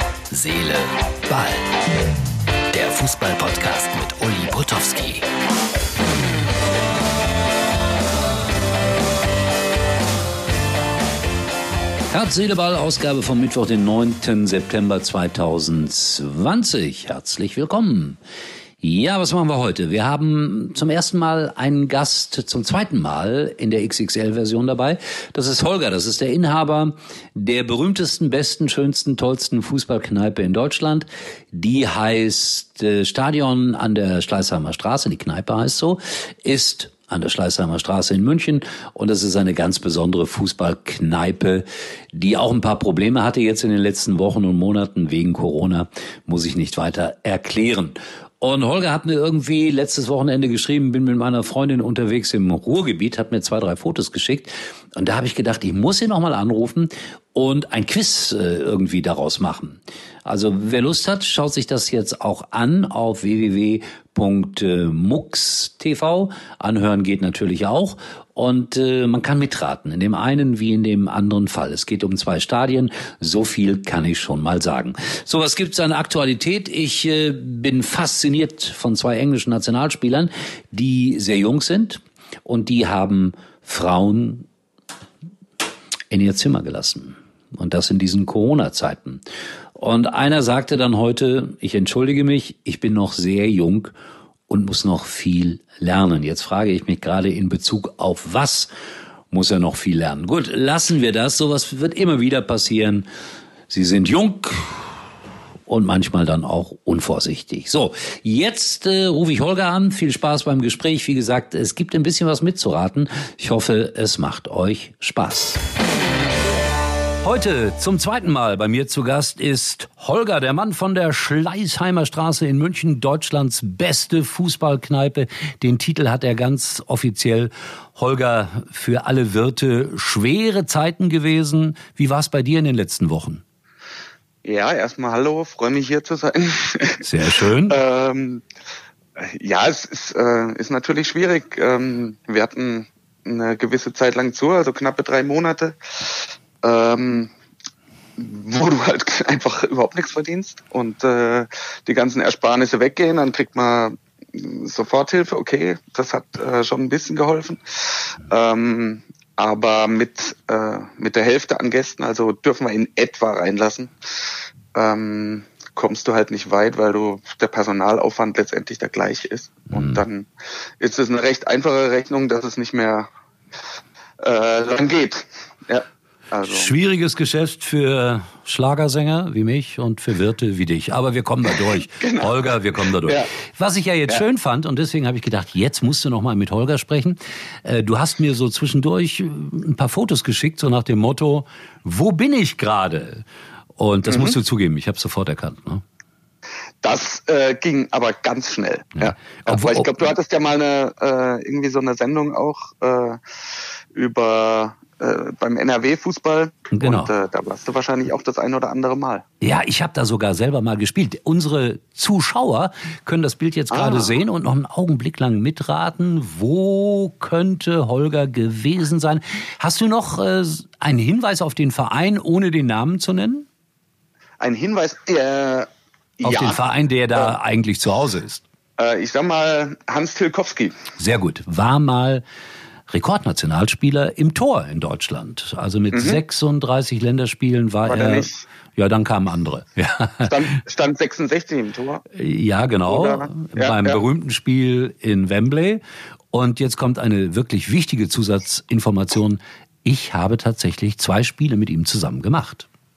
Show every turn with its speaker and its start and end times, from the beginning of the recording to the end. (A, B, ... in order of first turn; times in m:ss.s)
0:00.3-0:02.1 A
0:02.7-0:05.2 A
0:12.1-0:18.2 B
0:18.8-1:24.5 B
1:26.1-1:29.2 B
1:29.8-1:33.9 B
1:34.5-1:38.7 B
1:39.3-1:43.0 B
1:43.7-1:44.8 B
1:45.7-1:55.6 B
1:57.2-2:13.4 B
2:14.4-2:17.0 C
2:17.0-2:17.8 B
2:17.7-2:18.4 C
2:19.2-2:27.3 C
2:28.2-2:43.9 C
2:44.7-2:50.3 C
2:49.7-2:50.0 B
2:50.8-2:53.1 C
2:54.2-2:56.7 C
2:56.4-3:13.2 B
3:01.5-3:02.4 C
3:03.0-3:03.3 C
3:13.8-3:15.8 B
3:14.0-3:14.4 C
3:16.8-3:23.2 C
3:19.0-3:20.0 B
3:23.9-3:29.2 C
3:26.7-3:27.1 B
3:29.4-3:43.4 B
3:33.7-3:34.1 C
3:44.4-3:45.7 C
3:46.2-3:46.6 C
3:46.2-3:48.4 B
3:48.8-3:50.8 C
3:51.0-3:52.2 B
3:52.9-4:00.3 B
3:55.9-3:56.2 C
3:57.8-3:58.4 C
4:00.2-4:02.0 C
4:02.1-4:05.8 B
4:02.8-4:04.0 C
4:06.3-4:12.7 B